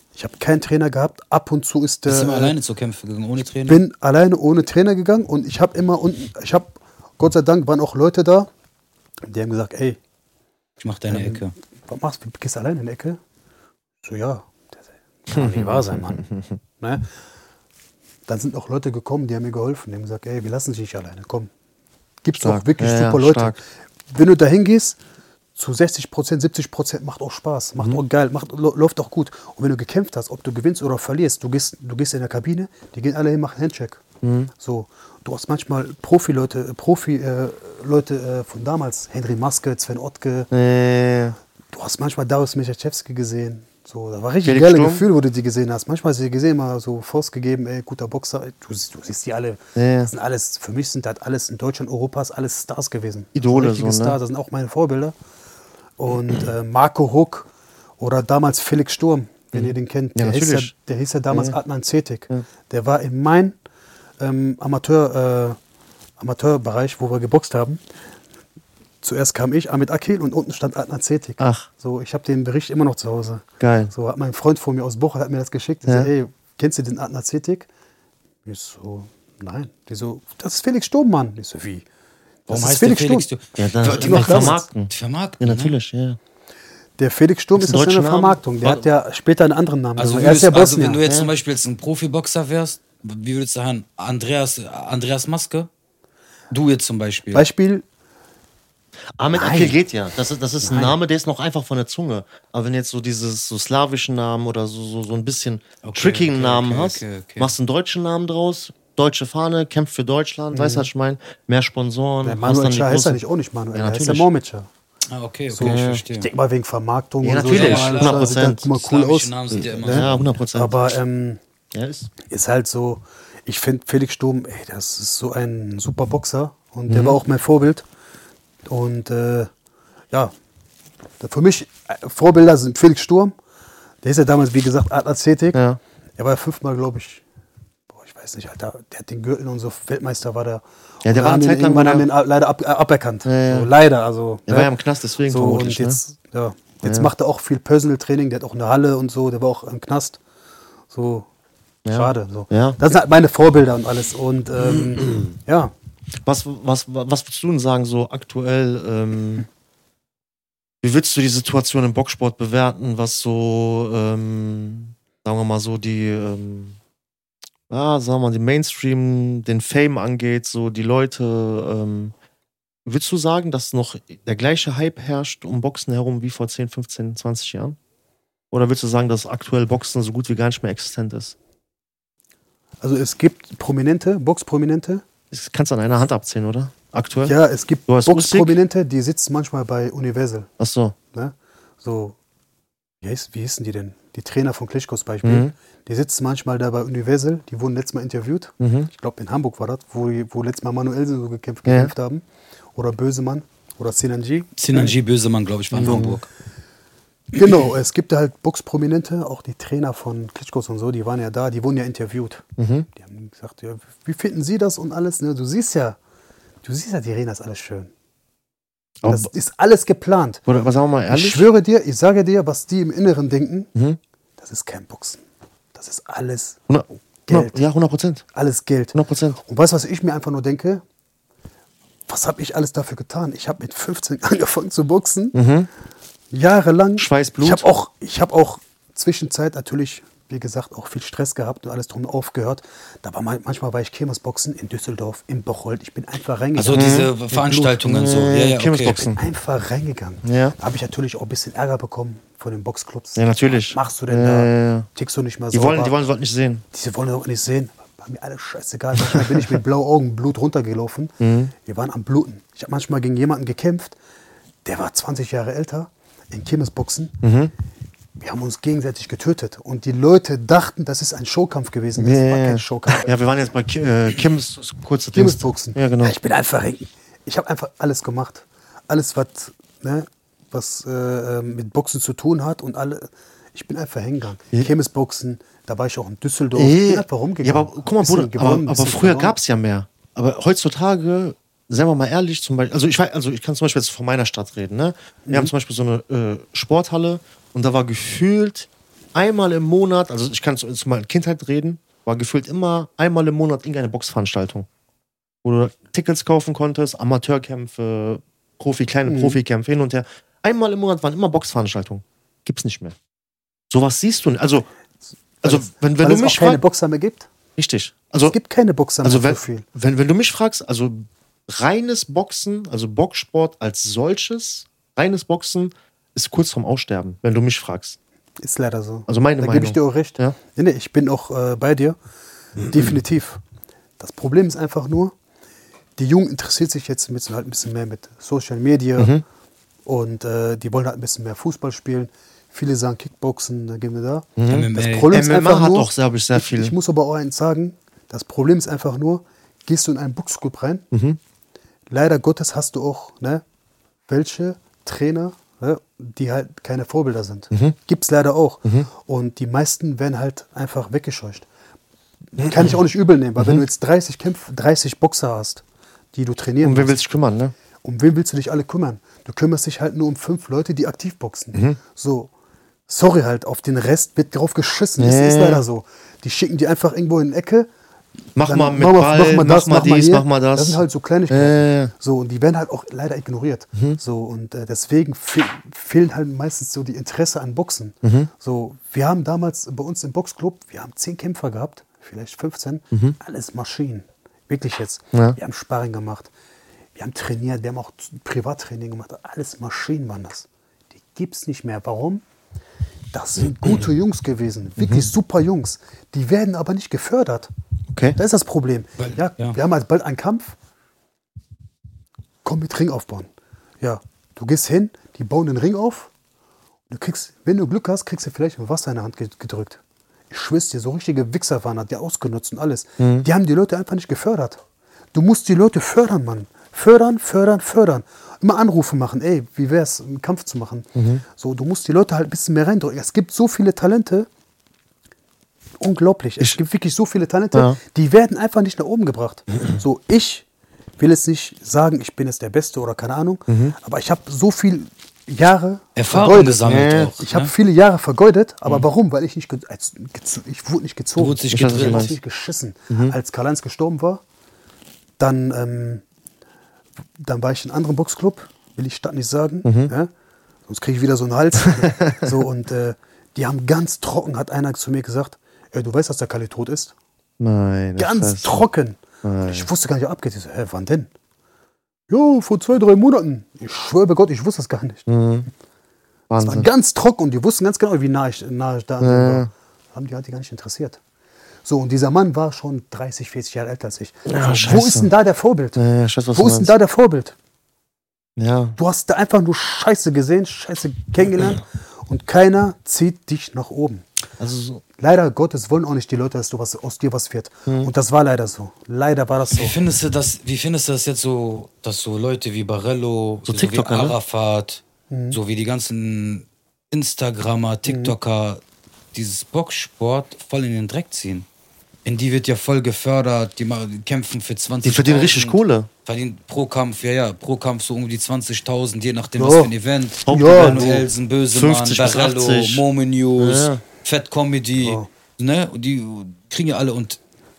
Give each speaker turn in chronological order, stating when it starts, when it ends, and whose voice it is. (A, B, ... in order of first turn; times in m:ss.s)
0:00.1-0:02.5 A
0:02.0-0:03.8 B
0:03.6-0:08.5 A
0:09.2-0:10.0 A
0:10.8-0:11.5 B
0:11.1-0:13.2 A
0:14.0-0:16.2 A
0:15.3-0:16.6 C
0:16.8-0:17.0 A
0:18.3-0:21.5 A
0:22.2-0:23.6 A
0:22.4-0:23.6 C
0:24.1-0:25.0 A
0:25.6-0:34.0 A
0:34.2-0:34.5 C
0:34.6-0:40.5 A
0:40.5-0:41.4 C
0:41.7-0:55.1 A
0:44.4-0:45.0 C
0:49.8-0:50.1 C
0:53.4-0:54.2 C
0:56.0-0:57.5 A
0:58.0-1:03.6 A
0:59.5-1:00.7 C
1:01.3-1:01.6 C
1:04.2-1:05.6 A
1:06.2-1:07.8 A
1:09.0-1:17.7 A
1:11.4-1:11.7 C
1:13.6-1:13.9 C
1:15.8-1:16.1 C
1:18.4-1:21.8 A
1:22.5-1:23.3 A
1:22.5-1:25.7 B
1:23.6-1:26.2 C
1:23.9-1:24.6 A
1:27.0-1:31.0 A
1:27.6-1:28.8 C
1:30.0-1:35.7 B
1:31.0-1:31.3 C
1:36.5-1:37.4 B
1:37.3-1:37.8 A
1:39.2-1:53.2 C
1:39.3-1:39.8 A
1:40.6-1:41.0 A
1:45.8-1:47.5 B
1:50.5-1:50.9 A
1:52.2-1:54.7 A
1:53.7-1:54.3 C
1:55.1-1:56.3 B
1:55.5-2:01.4 A
1:55.6-1:56.0 C
1:57.2-1:58.7 C
1:57.5-2:00.2 B
1:59.5-2:00.8 C
2:01.7-2:02.1 C
2:02.2-2:07.8 A
2:06.9-2:07.2 C
2:08.7-2:09.5 A
2:11.2-2:13.3 A
2:14.0-2:15.6 A
2:15.5-2:15.8 C
2:16.2-2:17.2 A
2:17.9-2:24.7 A
2:21.0-2:22.1 C
2:23.2-2:23.7 C
2:24.5-2:26.0 C
2:25.2-2:30.2 A
2:26.8-2:27.1 C
2:30.9-2:31.3 A
2:31.8-2:32.8 C
2:31.9-2:35.7 A
2:34.6-2:35.3 C
2:36.2-2:39.5 C
2:40.8-2:46.8 C
2:47.7-2:52.1 C
2:52.8-2:57.8 C
2:58.5-3:01.3 C
3:02.8-3:05.0 A
3:05.3-3:07.3 C
3:07.2-3:10.5 A
3:07.9-3:08.6 C
3:10.6-3:11.0 C
3:11.1-3:12.2 A
3:13.0-3:22.2 A
3:15.2-3:15.5 C
3:18.6-3:18.9 C
3:21.6-3:21.9 C
3:22.8-3:24.9 A
3:24.6-3:26.3 B
3:25.7-3:26.2 A
3:25.7-3:26.2 C
3:27.3-3:32.4 A
3:32.6-3:32.9 C
3:33.0-3:36.0 A
3:36.6-3:37.9 A
3:39.0-3:39.3 C
3:39.0-3:40.4 A
3:40.5-3:41.5 C
3:41.1-3:43.7 A
3:44.4-3:45.2 A
3:45.7-3:46.6 A
3:46.7-3:48.2 C
3:47.3-3:47.6 A
3:48.3-3:50.8 A
3:48.9-3:49.4 C
3:52.1-3:55.4 A
3:55.3-3:55.7 C
3:56.3-4:07.8 A
3:57.0-3:57.7 C
4:06.6-4:09.1 B
4:06.7-4:07.1 C
4:07.8-4:09.2 C
4:09.1-4:15.9 A
4:10.2-4:10.6 C
4:13.2-4:14.9 C
4:15.5-4:16.6 C
4:16.7-4:23.9 A
4:19.0-4:19.4 C
4:21.2-4:21.5 C
4:24.6-4:27.2 A
4:27.2-4:27.5 C
4:28.2-4:33.1 A
4:32.0-4:36.2 C
4:35.1-4:49.4 A
4:46.5-5:04.7 C
4:55.3-4:55.5 A
5:05.4-5:13.0 C
5:09.1-5:09.4 A
5:13.7-5:14.7 C
5:15.4-5:17.3 A
5:15.4-5:16.6 C
5:17.6-5:18.4 C
5:18.2-5:19.6 A
5:19.0-5:28.0 C
5:28.4-5:32.0 A
5:29.1-5:30.4 C
5:32.6-5:33.4 A
5:34.0-5:35.1 A
5:36.0-5:39.1 A
5:39.0-5:39.2 C
5:39.8-5:50.8 A
5:44.4-5:46.7 C
5:44.5-5:45.1 B
5:50.9-5:51.2 C
5:51.9-5:53.4 A
5:54.1-6:01.4 A
6:02.3-6:05.6 A
6:02.4-6:02.7 C
6:03.4-6:03.6 C
6:06.1-6:07.0 A
6:06.6-6:07.5 C
6:07.8-6:12.3 A
6:12.9-6:17.7 A
6:15.0-6:15.6 C
6:18.4-6:21.9 C
6:18.4-6:36.3 A
6:28.0-6:28.3 C
6:37.0-6:40.5 A
6:41.0-6:42.2 A
6:43.1-6:47.5 A
6:44.8-6:45.1 C
6:47.9-6:48.2 C
6:48.2-6:50.6 A
6:49.0-6:49.6 B
6:52.4-6:53.3 A
6:53.8-6:56.1 A
6:56.9-7:04.6 A
7:03.0-7:03.3 C
7:05.1-7:14.3 A
7:11.0-7:11.2 C
7:15.8-7:20.4 A
7:21.0-7:34.2 A
7:23.5-7:23.7 C
7:26.0-7:27.5 B
7:26.6-7:27.1 C
7:31.2-7:32.1 B
7:31.5-7:32.2 C
7:35.2-7:36.0 A
7:37.2-7:40.1 A
7:39.6-7:39.9 C
7:40.7-7:46.9 A
7:41.8-7:42.2 C
7:47.4-7:48.6 C
7:48.0-7:51.1 A
7:49.2-7:49.7 C
7:52.1-7:55.1 A
7:55.1-7:55.5 C
7:56.3-7:56.7 C
7:56.4-8:01.0 A
7:59.0-7:59.5 C
8:01.6-8:05.8 A
8:04.3-8:05.1 C
8:05.7-8:06.7 C
8:06.3-8:07.3 A
8:08.4-8:08.8 C
8:08.8-8:14.0 A
8:14.4-8:14.8 C
8:15.0-8:19.8 A
8:19.5-8:28.6 B
8:23.4-8:24.2 C
8:25.1-8:25.4 A
8:27.8-8:28.1 A
8:29.1-8:31.4 B
8:32.0-8:47.2 B
8:34.8-8:35.9 C
8:39.4-8:39.7 A
8:40.2-8:42.8 C
8:40.3-8:41.0 A
8:43.4-8:43.8 C
8:44.8-8:45.1 A